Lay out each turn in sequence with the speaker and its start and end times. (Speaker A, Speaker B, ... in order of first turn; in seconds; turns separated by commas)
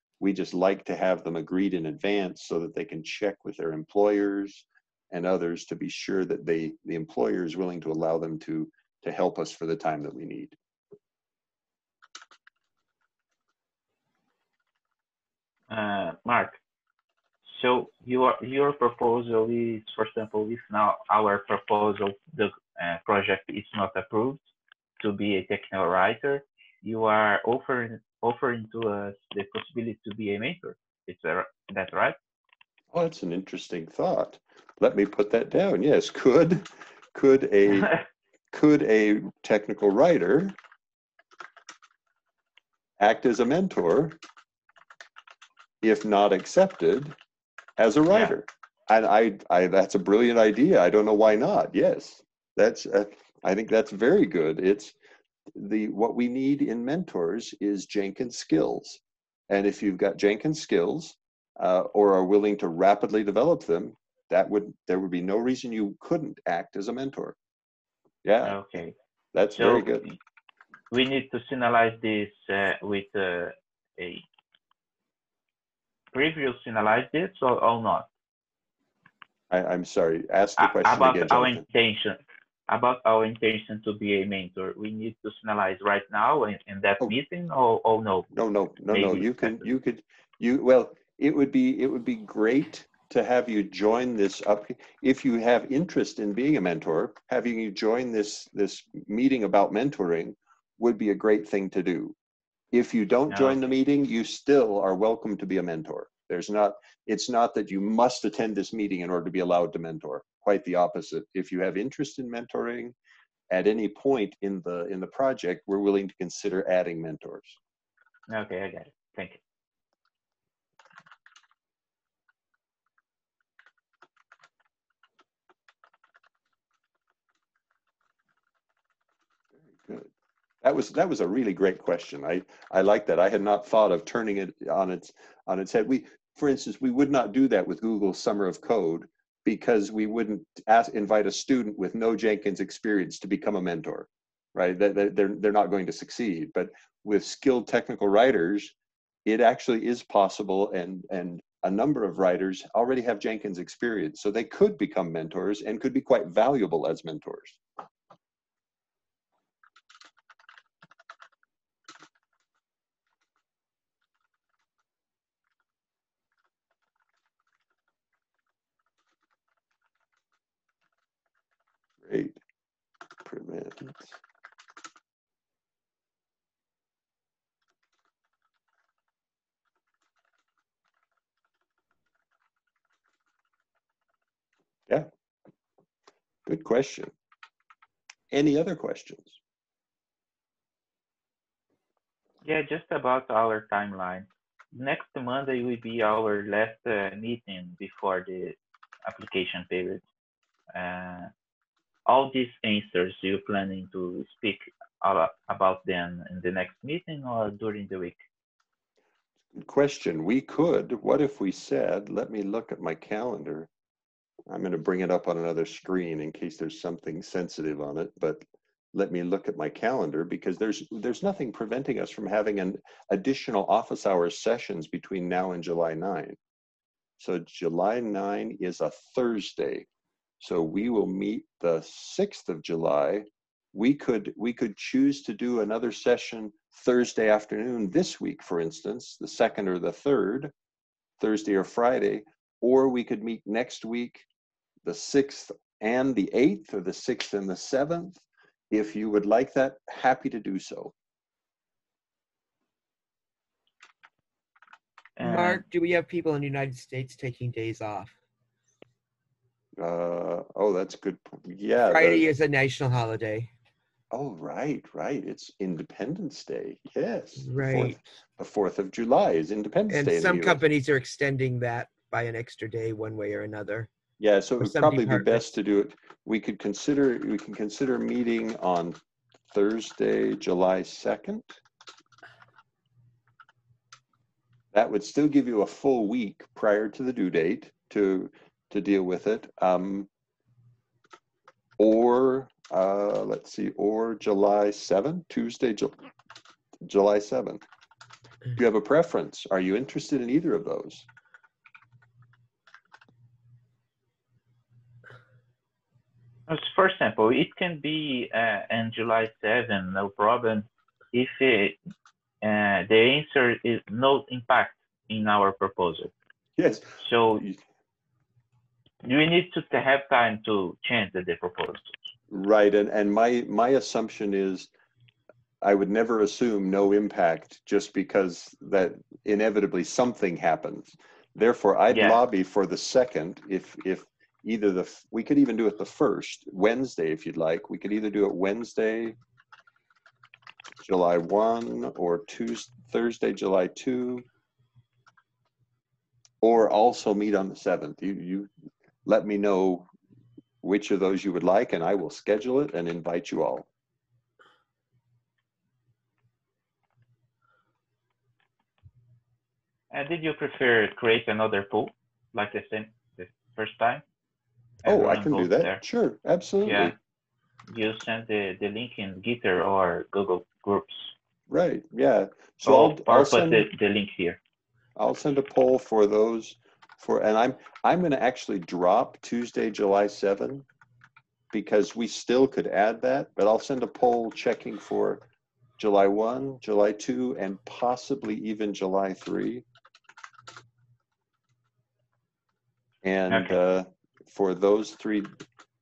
Speaker A: 0.2-10.6, Speaker B: 15.7-16.6, Speaker B: 17.5-24.4, Speaker B: 25.0-32.2, Speaker A: 32.9-37.9, Speaker A: 38.5-40.6, Speaker A: 43.0-44.2, Speaker A: 45.8-47.1, Speaker A: 47.8-55.0, Speaker A: 55.5-67.4, Speaker A: 68.2-68.8, Speaker B: 68.4-69.0, Speaker A: 69.3-70.1, Speaker B: 69.6-70.2, Speaker B: 70.9-74.2, Speaker B: 76.1-78.1, Speaker A: 79.5-81.6, Speaker B: 80.6-88.3, Speaker A: 88.3-102.2, Speaker B: 88.9-89.7, Speaker A: 102.7-113.0, Speaker B: 103.3-103.6, Speaker A: 113.5-117.6, Speaker B: 118.3-119.4, Speaker A: 129.7-130.1, Speaker A: 130.6-148.7, Speaker A: 149.3-157.6, Speaker A: 172.0-172.4, Speaker A: 173.2-174.2, Speaker A: 186.5-187.1, Speaker A: 188.3-189.4, Speaker B: 192.4-200.0, Speaker B: 200.7-201.3, Speaker B: 202.1-208.2, Speaker A: 209.5-213.7, Speaker A: 214.5-226.4, Speaker A: 227.2-229.9, Speaker A: 230.4-240.5, Speaker A: 241.2-244.3, Speaker A: 244.8-250.9, Speaker B: 255.2-255.6, Speaker C: 255.2-258.1, Speaker A: 259.8-262.3, Speaker C: 261.9-263.5, Speaker A: 264.1-270.6, Speaker C: 267.4-268.0, Speaker C: 269.9-273.9, Speaker A: 274.2-279.0, Speaker C: 274.6-275.5, Speaker A: 279.5-281.6, Speaker A: 284.7-290.1, Speaker A: 291.8-296.1, Speaker A: 296.8-297.6, Speaker A: 298.6-301.1, Speaker B: 306.5-311.8, Speaker B: 312.4-316.1, Speaker A: 316.6-317.6, Speaker B: 317.0-317.4, Speaker B: 319.0-322.0, Speaker A: 322.3-324.7, Speaker A: 325.6-339.2, Speaker B: 331.9-332.2, Speaker A: 340.8-344.2, Speaker A: 346.4-348.5, Speaker A: 349.1-349.9, Speaker A: 350.6-353.7, Speaker B: 359.9-364.0, Speaker B: 364.8-365.8, Speaker A: 364.9-366.9, Speaker B: 366.6-366.9, Speaker B: 367.7-371.1, Speaker A: 371.5-373.7, Speaker B: 372.6-374.4, Speaker A: 375.0-380.6, Speaker A: 381.5-385.2, Speaker A: 385.8-389.6, Speaker A: 393.0-395.4, Speaker B: 393.3-393.6